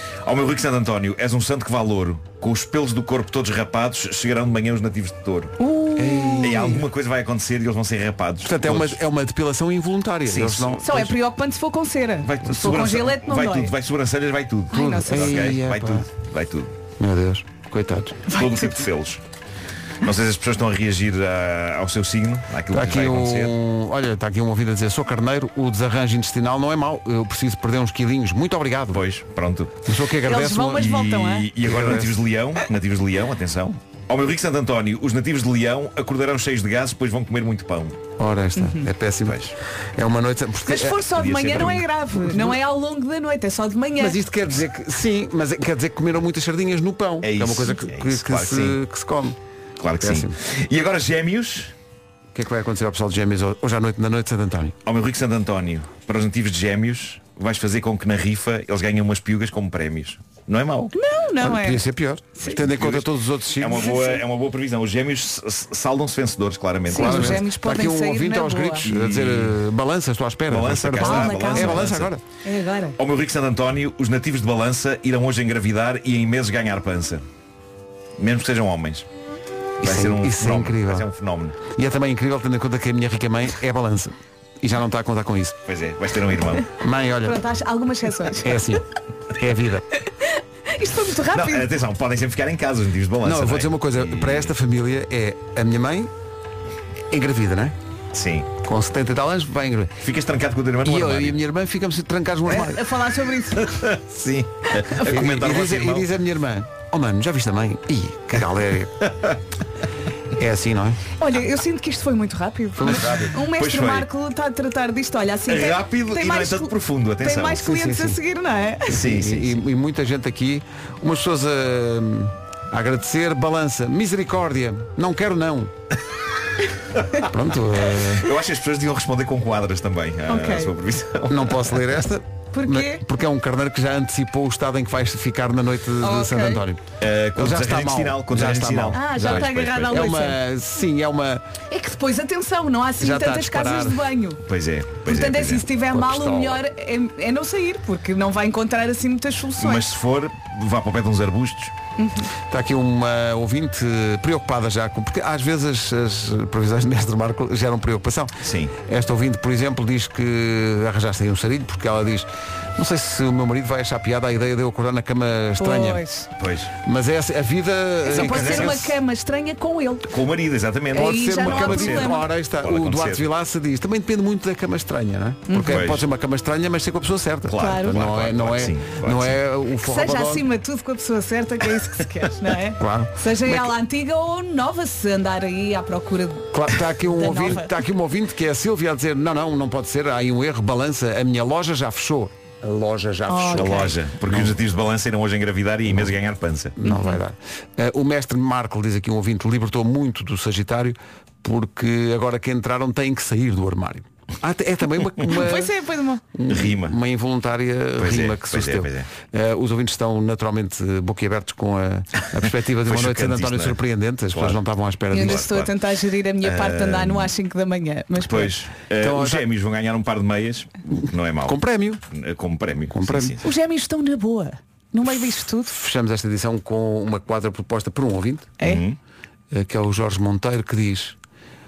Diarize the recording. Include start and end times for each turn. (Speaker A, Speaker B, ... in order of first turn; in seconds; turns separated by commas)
Speaker A: 0.2-5.5, Speaker B: 5.6-6.5, Speaker C: 6.0-6.8, Speaker A: 6.4-9.0, Speaker C: 8.4-11.1, Speaker A: 10.3-11.1, Speaker B: 10.8-13.7, Speaker A: 12.2-16.7, Speaker B: 14.7-15.5, Speaker C: 14.7-16.1, Speaker C: 17.0-18.3, Speaker B: 18.3-18.6, Speaker A: 18.3-19.2, Speaker A: 20.0-23.6, Speaker C: 22.7-29.0, Speaker A: 28.9-29.8, Speaker C: 29.9-32.2, Speaker B: 30.3-31.5, Speaker A: 30.9-38.0, Speaker C: 38.2-39.4, Speaker B: 38.6-38.9, Speaker A: 39.2-39.5, Speaker C: 40.0-41.1, Speaker B: 40.7-44.2, Speaker A: 41.1-41.9, Speaker C: 44.0-49.4, Speaker A: 47.2-48.8, Speaker A: 49.8-51.7, Speaker C: 50.0-50.4, Speaker C: 52.3-54.8, Speaker A: 54.9-60.9, Speaker B: 60.9-61.8, Speaker C: 61.4-64.0, Speaker A: 62.5-67.5, Speaker B: 63.8-64.2, Speaker B: 66.9-68.9, Speaker C: 66.9-72.2, Speaker A: 68.8-69.5, Speaker A: 70.5-72.1, Speaker B: 71.0-71.9, Speaker B: 72.5-73.0, Speaker A: 73.0-77.2, Speaker A: 78.2-79.1, Speaker A: 79.8-81.6, Speaker C: 79.8-81.1, Speaker C: 81.7-85.6, Speaker A: 85.7-86.7, Speaker C: 86.8-87.4, Speaker B: 87.2-88.6, Speaker C: 88.4-89.8, Speaker B: 90.2-91.7, Speaker A: 91.3-94.5, Speaker C: 93.2-96.1, Speaker C: 97.1-97.8, Speaker A: 98.1-98.5, Speaker C: 98.6-100.0, Speaker A: 100.0-101.4, Speaker C: 100.8-102.9, Speaker B: 102.5-103.8, Speaker A: 103.6-106.1, Speaker C: 105.0-109.1, Speaker C: 110.4-111.0, Speaker B: 111.2-119.0, Speaker C: 112.8-113.3, Speaker A: 112.8-114.1, Speaker A: 115.5-117.7, Speaker C: 117.6-118.2, Speaker A: 118.9-119.6, Speaker C: 118.9-125.7, Speaker C: 127.2-128.3, Speaker A: 128.0-131.8, Speaker B: 130.3-130.7, Speaker C: 131.3-141.4, Speaker B: 132.5-133.0, Speaker B: 136.0-136.6, Speaker A: 137.0-140.3, Speaker B: 138.9-140.4, Speaker B: 141.7-144.4, Speaker C: 143.0-144.0, Speaker A: 144.4-145.7, Speaker B: 145.1-149.8, Speaker C: 145.9-146.6, Speaker A: 149.6-151.7, Speaker B: 152.0-152.3, Speaker C: 152.5-166.0, Speaker A: 158.4-158.8, Speaker B: 165.6-166.3, Speaker A: 166.4-166.8, Speaker C: 166.8-168.9, Speaker B: 168.1-170.1, Speaker A: 168.1-168.9, Speaker A: 170.1-173.3, Speaker C: 170.9-180.5, Speaker B: 170.9-172.3, Speaker B: 175.5-175.8, Speaker A: 175.7-176.0, Speaker A: 177.5-179.4, Speaker B: 177.6-178.0, Speaker B: 179.8-186.5, Speaker C: 182.8-183.7, Speaker C: 186.5-194.6, Speaker B: 187.1-187.8, Speaker B: 193.3-193.9, Speaker A: 193.5-196.8, Speaker C: 196.8-205.8, Speaker B: 196.8-197.2, Speaker B: 205.3-206.2, Speaker C: 206.3-215.6, Speaker A: 206.5-207.0, Speaker A: 208.0-209.1, Speaker A: 212.8-213.8, Speaker A: 214.3-215.8, Speaker B: 215.1-218.5, Speaker A: 216.4-217.3, Speaker A: 218.2-223.4, Speaker C: 219.0-219.4, Speaker C: 221.4-222.0, Speaker C: 222.9-223.4, Speaker B: 223.4-225.8, Speaker C: 225.6-228.5, Speaker A: 228.6-229.0, Speaker C: 229.5-231.2